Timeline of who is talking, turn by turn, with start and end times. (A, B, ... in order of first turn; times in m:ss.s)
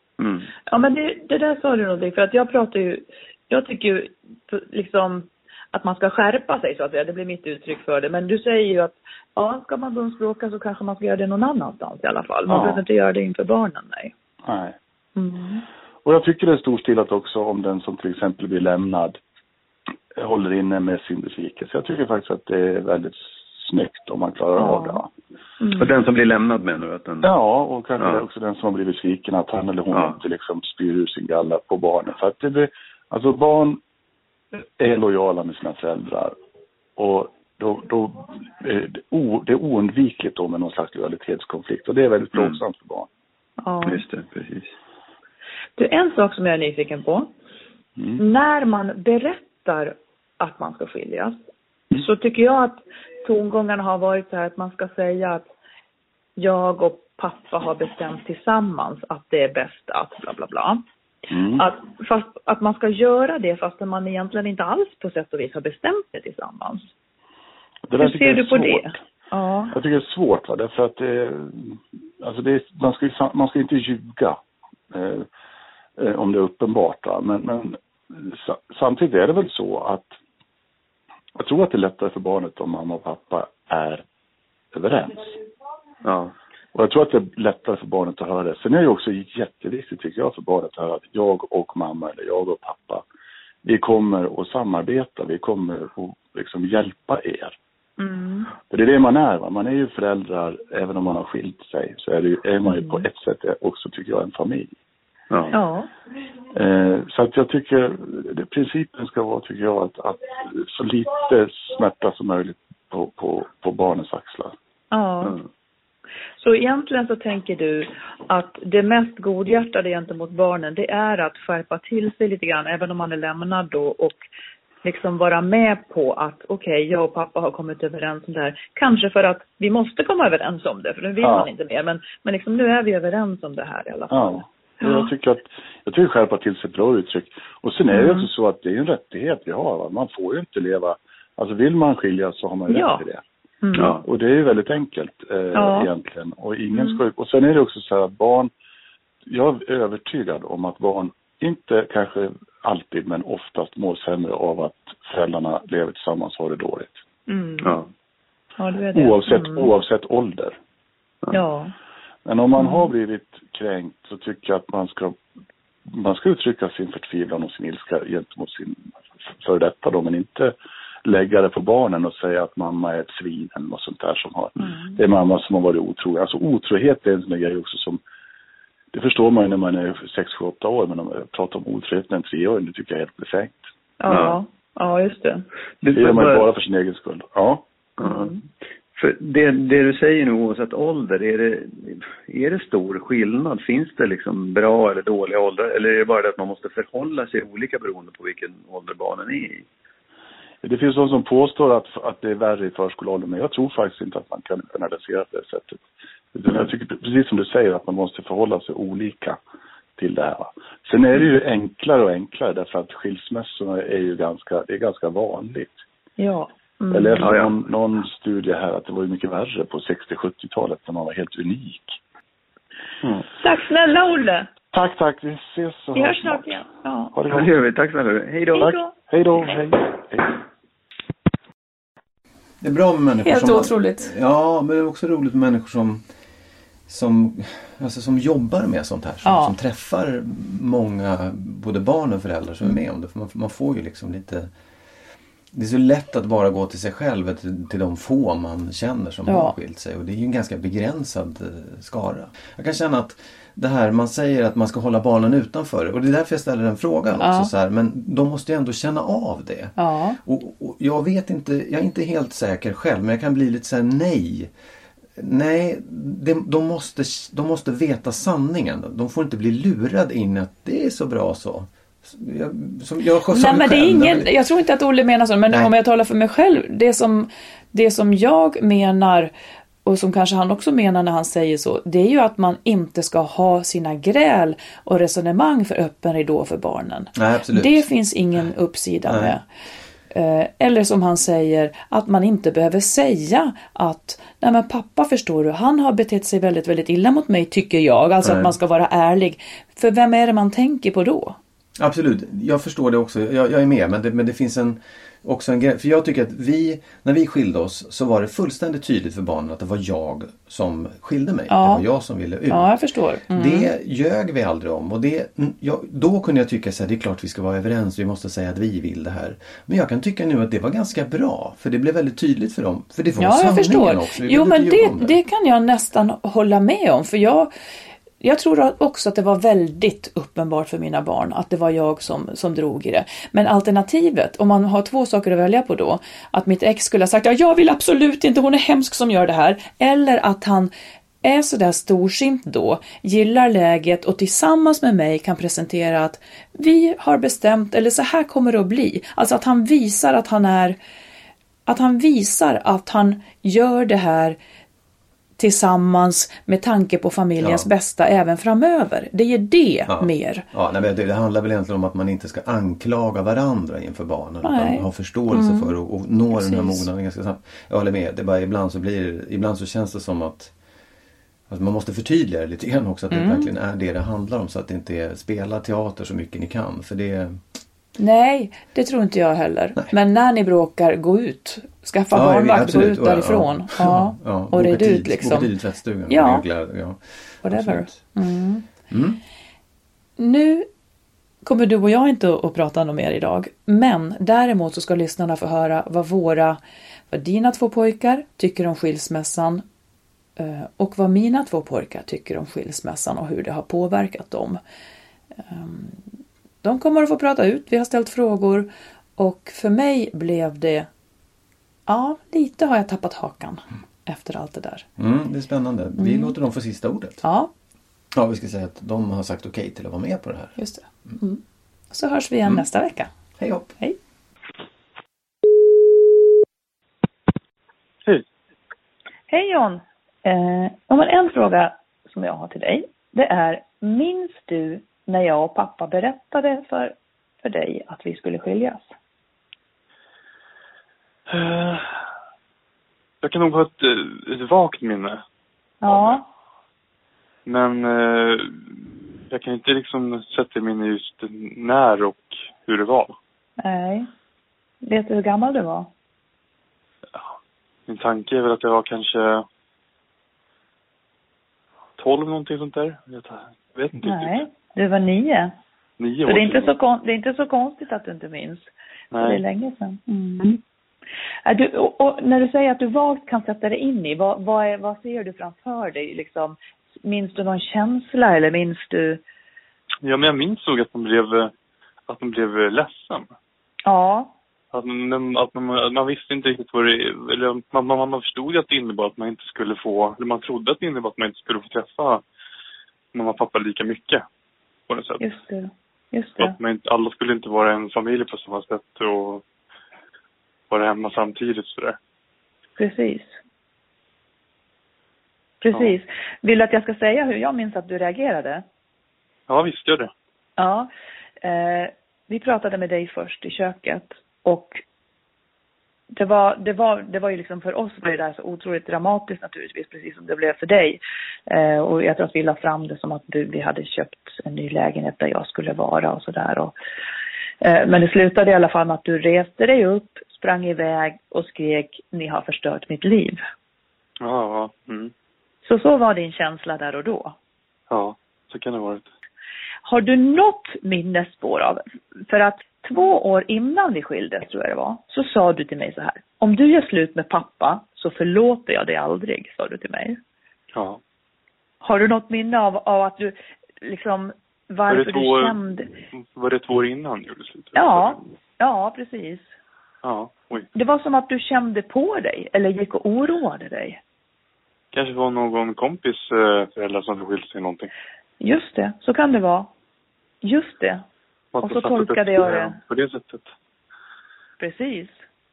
0:00.2-0:00.5 A
0:00.7-0:14.1 B
0:12.5-0:12.8 C
0:14.4-0:14.8 C
0:15.2-0:15.6 B
0:16.0-0:19.2 C
0:20.1-0:25.1 C
0:24.6-0:25.0 B
0:25.6-0:25.9 B
0:25.8-0:27.3 A
0:27.2-0:33.8 C
0:28.0-0:28.2 A
0:29.9-0:30.2 A
0:34.6-0:36.4 C
0:37.0-0:43.1 C
0:42.3-0:42.6 A
0:43.6-0:44.0 B
0:43.9-0:44.7 A
0:45.8-0:47.3 B
0:48.2-0:51.4 B
0:51.9-0:55.4 B
0:56.4-1:00.8 B
1:01.5-1:06.9 B
1:07.9-1:09.0 C
1:08.0-1:09.7 B
1:09.7-1:14.4 C
1:14.9-1:15.3 C
1:16.0-1:20.1 C
1:21.4-1:24.0 C
1:24.7-1:25.4 C
1:26.0-1:26.3 A
1:26.7-1:33.0 C
1:33.6-1:37.6 C
1:38.0-1:38.5 B
1:38.6-1:44.7 C
1:42.6-1:43.0 B
1:45.3-1:45.6 A
1:45.5-1:45.9 B
1:46.5-1:54.5 C
1:54.9-1:55.4 B
1:56.4-2:04.2 B
2:04.8-2:15.1 B
2:11.2-2:11.5 C
2:14.1-2:23.2 C
2:17.9-2:18.3 B
2:22.7-2:23.0 B
2:23.6-2:24.0 B
2:23.8-2:24.0 A
2:24.0-2:28.5 C
2:25.5-2:25.9 B
2:26.7-2:27.0 B
2:29.3-2:36.9 C
2:37.3-2:37.8 B
2:38.6-2:39.7 B
2:38.9-2:40.6 C
2:41.3-2:41.7 B
2:42.2-2:45.2 C
2:42.6-2:42.9 B
2:45.9-2:58.0 C
2:54.6-2:55.0 B
2:58.9-3:03.6 C
3:04.0-3:05.4 B
3:04.1-3:04.4 A
3:05.8-3:06.5 A
3:05.9-3:07.6 C
3:08.0-3:08.3 A
3:08.0-3:08.4 B
3:09.0-3:19.6 A
3:20.6-3:25.8 C
3:26.3-3:29.4 C
3:30.0-3:35.8 C
3:36.2-3:37.3 B
3:36.9-3:42.0 C
3:37.2-3:37.5 A
3:43.4-3:44.5 B
3:44.7-3:46.6 C
3:45.9-3:47.2 B
3:47.1-3:47.5 C
3:47.3-3:48.7 A
3:48.5-3:49.0 B
3:48.6-3:50.4 C
3:52.6-3:56.0 D
3:53.2-3:54.1 E
3:56.9-4:04.5 D
3:59.2-3:59.5 E
4:05.5-4:24.5 D
4:09.2-4:09.5 E
4:17.2-4:17.5 E
4:19.8-4:20.2 E
4:25.1-4:34.3 D
4:33.3-4:39.3 E
4:35.5-4:35.7 D
4:39.8-4:49.4 E
4:47.1-4:47.9 D
4:49.1-4:49.4 D
4:50.1-5:01.4 E
4:58.2-4:58.5 D
5:01.8-5:12.7 D
5:11.5-5:11.8 E
5:12.5-5:13.7 E
5:13.3-5:25.2 D
5:23.2-5:27.5 E
5:28.2-5:40.7 E
5:41.2-5:50.8 E
5:51.6-5:54.4 E
5:55.4-6:00.5 E
5:57.4-5:57.7 D
5:59.9-6:10.5 D
6:04.4-6:05.7 E
6:06.3-6:06.9 E
6:11.5-6:17.4 D
6:13.1-6:13.5 E
6:18.0-6:25.5 E
6:22.1-6:28.0 D
6:26.1-6:26.4 E
6:27.4-6:28.6 E
6:28.9-6:29.2 D
6:30.2-6:30.7 E
6:31.4-6:36.6 E
6:37.1-6:39.6 E
6:40.4-6:44.6 E
6:45.4-6:46.0 E
6:46.6-6:50.9 E
6:51.9-6:54.9 E
6:55.0-6:57.2 D
6:56.0-6:56.4 E
6:57.2-6:57.5 E
6:58.1-7:00.6 D
7:00.6-7:03.1 E
7:03.4-7:03.7 D
7:09.3-7:18.9 B
7:21.3-7:21.9 F
7:23.2-7:25.2 F
7:25.8-7:26.2 B
7:25.9-7:26.2 F
7:27.4-7:28.6 F
7:29.3-7:33.2 F
7:33.6-7:34.1 B
7:34.8-7:35.9 B
7:37.9-7:39.4 F
7:42.0-7:44.4 F
7:44.0-7:45.5 B
7:46.0-7:46.7 F
7:46.2-7:50.6 B
7:49.1-7:49.4 F
7:51.4-7:59.2 B
8:00.0-8:01.5 F
8:02.1-8:03.3 F
8:03.9-8:04.3 B
8:04.7-8:12.2 F
8:13.1-8:14.2 F
8:14.9-8:15.3 F
8:15.2-8:16.6 B
8:16.4-8:19.4 F
8:20.7-8:22.0 F
8:22.8-8:23.4 B
8:25.6-8:28.6 B
8:29.5-8:30.1 F
8:30.6-8:30.9 B
8:31.4-8:34.8 B
8:36.1-8:46.7 B
8:47.6-8:53.4 B
8:54.2-8:55.1 F
8:55.6-8:57.4 B
8:57.9-8:59.1 F
8:59.8-9:10.2 B
9:10.7-9:11.0 F
9:11.8-9:15.9 B
9:14.9-9:15.6 F
9:16.1-9:18.2 F
9:17.7-9:19.4 B
9:20.0-9:20.6 F
9:20.7-9:24.0 B
9:24.9-9:27.9 F
9:28.4-9:29.7 B
9:30.4-9:31.0 B
9:31.5-9:33.5 F
9:31.6-9:32.8 B
9:34.6-9:35.1 B